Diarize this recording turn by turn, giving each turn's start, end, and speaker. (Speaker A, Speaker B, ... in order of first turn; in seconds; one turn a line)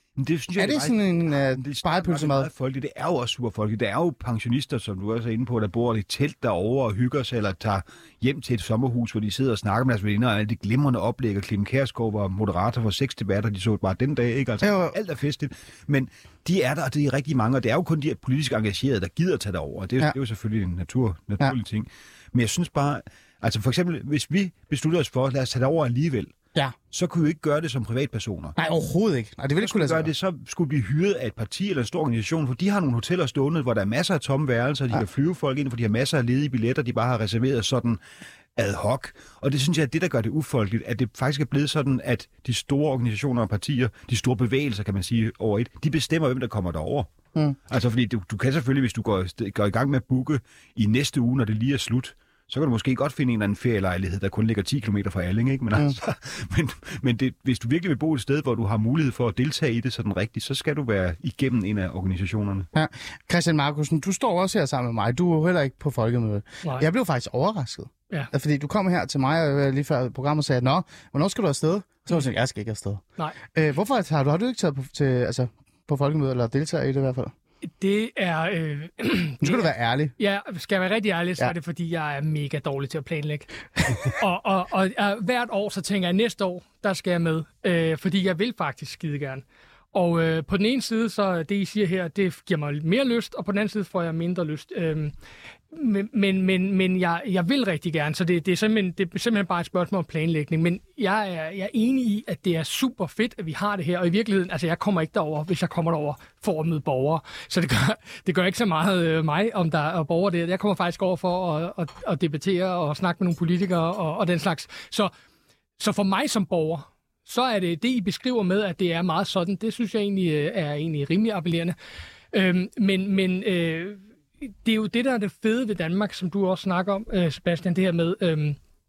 Speaker A: 0.2-26.4
Speaker B: 0.6-2.5
Speaker B: 14.6-15.0
Speaker A: 26.9-28.5
Speaker B: 28.6-30.1
Speaker A: 29.6-38.0
Speaker A: 38.5-47.1
Speaker A: 47.7-62.7
Speaker B: 62.7-73.0
Speaker B: 73.5-77.3
Speaker C: 77.8-95.1
Speaker B: 79.4-80.1
Speaker C: 95.7-115.1
Speaker C: 115.8-121.8
Speaker C: 122.3-128.6